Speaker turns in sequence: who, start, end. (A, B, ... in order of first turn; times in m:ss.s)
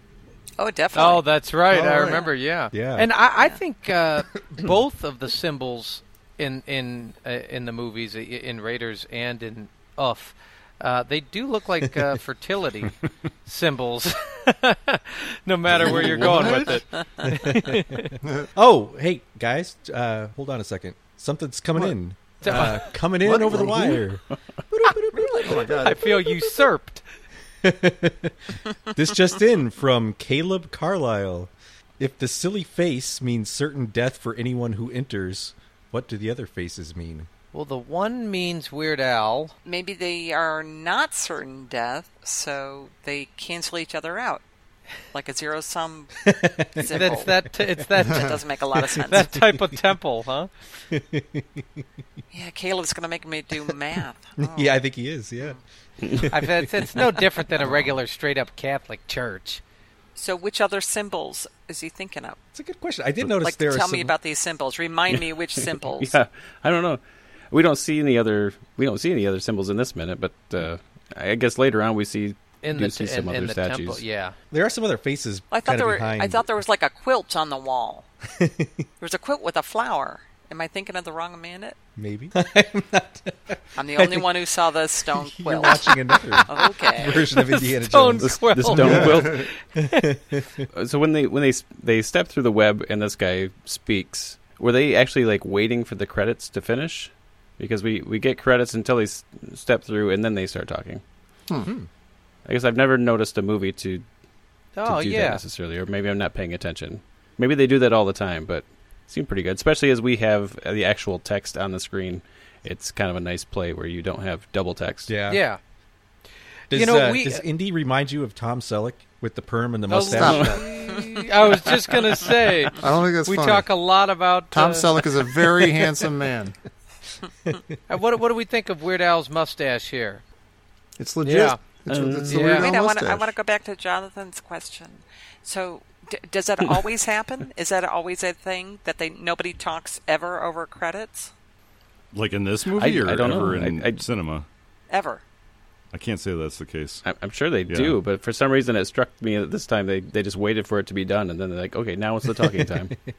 0:00.6-0:01.3 A
0:00.9-0:18.2 B
0:01.7-0:02.3 C
0:02.7-0:03.1 D
0:15.8-0:16.3 D
0:16.4-0:16.7 E
0:17.2-0:18.0 D
0:18.2-0:18.5 C
0:18.6-0:26.0 D
0:22.4-0:23.1 B
0:23.2-0:24.0 C
0:25.3-0:27.0 B
0:25.4-0:26.4 C
0:27.6-0:28.4 D
0:28.9-0:37.3 D
0:37.5-0:39.6 B
0:39.6-0:44.4 A
0:45.1-0:47.4 A
0:46.3-0:47.1 D
0:46.9-0:50.5 B
0:47.9-0:49.4 A
0:50.9-0:51.6 D
0:52.3-0:54.8 A
0:54.4-0:55.6 D
0:56.1-0:56.7 D
0:56.3-0:59.6 B
1:00.2-1:02.4 A
1:02.5-1:04.1 D
1:03.2-1:06.1 A
1:05.8-1:14.0 F
1:12.6-1:14.4 B
1:14.5-1:16.5 D
1:15.5-1:18.1 A
1:18.4-1:18.8 D
1:19.0-1:21.8 A
1:22.0-1:24.3 D
1:23.8-1:27.4 A
1:25.1-1:29.3 D
1:27.3-1:30.1 B
1:28.2-1:29.5 F
1:29.9-1:30.4 D
1:30.7-1:41.0 F
1:41.6-1:41.9 D
1:42.5-1:44.0 F
1:44.8-1:45.4 B
1:44.8-1:55.1 F
1:55.1-1:55.4 D
1:55.3-1:55.6 B
1:56.7-1:57.5 B
1:56.7-2:00.6 D
1:59.9-2:05.1 B
2:00.1-2:00.7 C
2:02.8-2:03.7 C
2:04.5-2:06.6 C
2:07.9-2:10.2 B
2:11.0-2:13.3 C
2:11.2-2:11.6 B
2:11.9-2:12.6 F
2:12.2-2:12.7 B
2:12.5-2:21.3 A
2:22.1-2:24.5 E
2:22.8-2:24.0 F
2:24.9-2:25.2 A
2:25.9-2:27.0 E
2:27.0-2:32.9 F
2:27.7-2:28.0 E
2:32.3-2:32.9 D